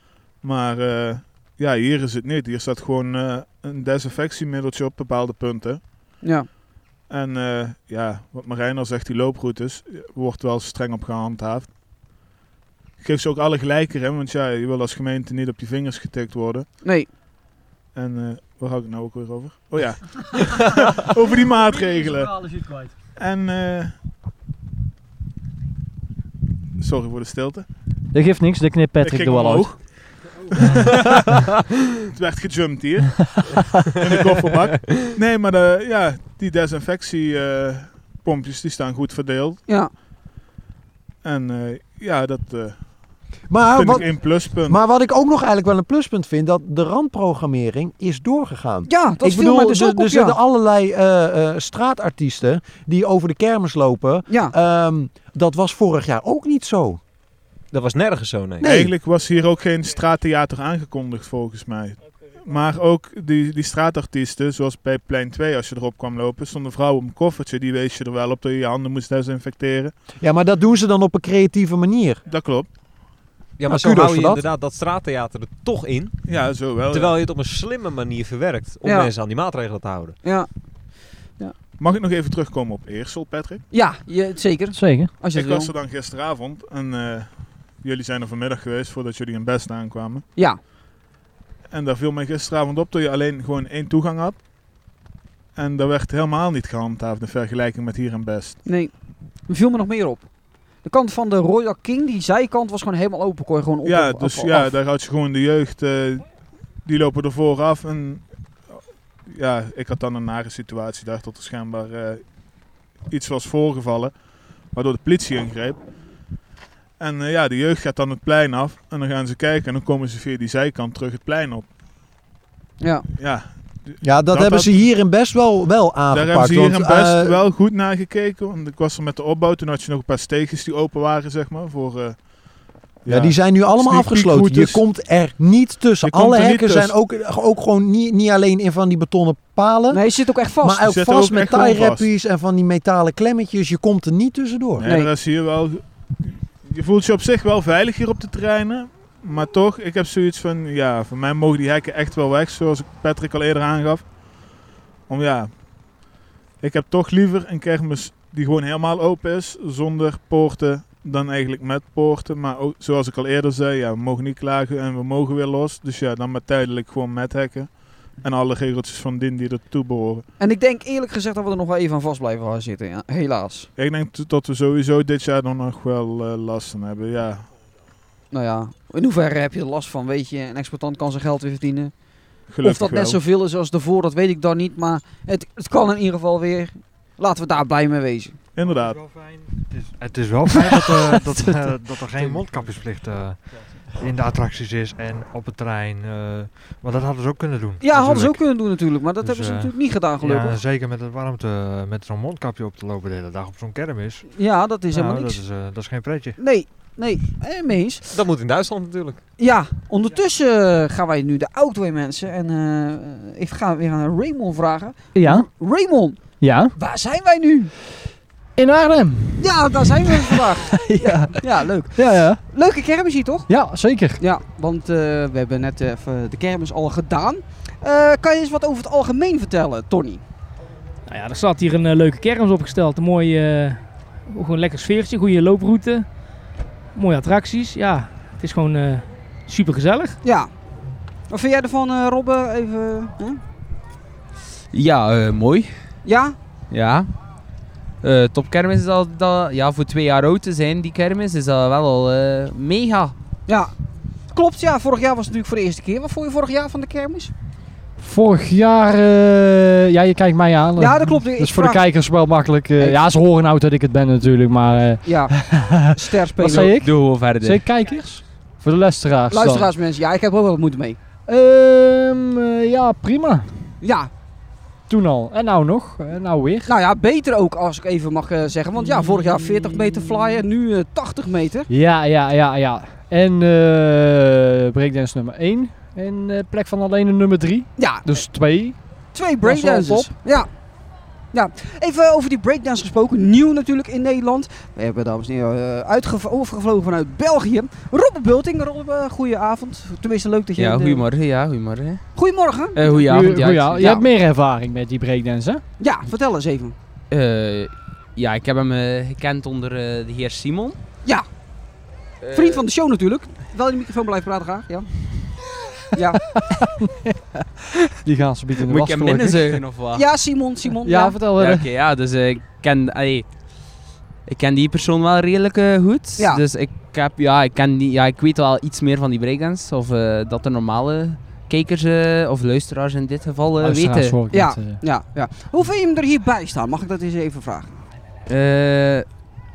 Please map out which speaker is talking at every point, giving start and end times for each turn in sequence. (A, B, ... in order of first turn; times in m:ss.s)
0:00.4-0:05.8 A
0:06.2-0:06.5 B
0:07.1-0:11.7 A
0:13.0-0:16.7 A
0:16.8-0:17.1 B
0:17.9-0:22.6 A
0:21.5-0:22.9 C
0:23.2-0:23.9 A
0:26.8-0:27.7 A
0:28.1-0:29.7 C
0:29.0-0:31.5 A
0:32.1-0:39.6 A
0:34.8-0:35.1 D
0:41.2-0:43.0 A
0:43.5-0:57.0 E
0:43.7-0:44.8 A
0:48.9-0:50.4 B
0:54.3-0:54.5 B
0:57.7-0:58.8 D
0:58.6-0:58.9 E
0:58.6-1:09.9 A
1:10.2-1:12.2 E
1:12.3-1:12.7 A
1:13.6-1:16.2 D
1:13.7-1:14.4 E
1:16.2-1:17.2 A
1:16.9-1:20.2 D
1:18.8-1:19.1 B
1:20.2-1:20.5 B
1:21.8-1:23.6 A
1:23.7-1:25.7 B
1:24.7-1:25.1 C
1:25.3-1:30.2 A
1:31.7-1:34.4 A
1:35.6-1:38.6 A
1:38.6-1:38.9 B
1:39.5-1:40.3 B
1:40.8-1:44.7 B
1:43.8-1:46.3 A
1:46.8-1:52.2 A
1:53.0-1:55.8 A
1:57.0-2:01.7 A
2:02.8-2:03.1 B
2:03.2-2:04.8 A
2:04.0-2:07.4 E
2:06.1-2:12.3 A
2:13.0-2:14.8 A
2:13.1-2:20.0 E
2:16.0-2:17.0 A
2:19.9-2:20.9 B
2:20.6-2:24.9 E
2:20.8-2:22.1 A
2:24.8-2:34.2 A
2:24.9-2:25.1 B
2:35.1-2:35.7 A
2:36.6-2:50.2 A
2:50.4-2:53.7 B
2:53.8-2:57.5 A
2:58.3-3:01.9 B
3:02.5-3:03.2 A
3:02.6-3:08.4 B
3:08.6-3:09.0 A
3:08.6-3:13.4 F
3:10.6-3:11.6 C
3:14.0-3:18.4 F
3:17.8-3:20.6 B
3:19.2-3:24.3 F
3:24.3-3:25.4 B
3:24.9-3:26.4 F
3:26.4-3:28.0 B
3:28.1-3:29.2 D
3:29.4-3:36.2 B
3:35.2-3:35.5 C
3:36.4-3:36.7 C
3:36.8-3:37.7 B
3:38.6-3:42.4 C
3:39.4-3:43.5 B
3:43.5-3:44.2 C
3:44.2-3:50.2 B
3:51.1-3:56.1 G
3:57.0-4:00.2 G
4:00.2-4:00.5 B
4:01.3-4:03.4 B
4:04.7-4:05.7 H
4:06.0-4:06.4 B
4:06.7-4:07.1 H
4:08.0-4:13.2 H
4:13.5-4:13.7 B
4:14.3-4:17.3 B
4:18.0-4:29.7 C
4:20.8-4:21.9 B
4:25.0-4:26.8 B
4:26.5-4:27.6 H
4:29.3-4:31.0 B
4:31.3-4:33.6 C
4:33.8-4:34.1 B
4:34.9-4:36.7 C
4:36.7-4:41.7 B
4:41.7-4:48.8 C
4:47.8-4:48.3 B
4:49.1-4:50.5 B
4:49.4-4:50.1 C
4:51.3-5:01.0 B
5:00.6-5:02.0 H
5:02.2-5:03.0 B
5:02.8-5:04.0 H
5:03.0-5:05.6 C
5:03.8-5:04.0 B
5:05.8-5:06.8 B
5:07.1-5:10.8 H
5:12.2-5:12.6 H
5:12.3-5:14.9 B
5:15.9-5:16.2 B
5:16.3-5:17.2 C
5:18.0-5:19.6 C
5:18.6-5:20.0 H
5:19.9-5:21.2 B
5:20.8-5:21.7 C
5:21.4-5:23.3 H
5:24.3-5:34.2 H
5:26.2-5:26.4 B
5:33.6-5:34.8 C
5:34.3-5:37.8 B
5:38.3-5:39.1 H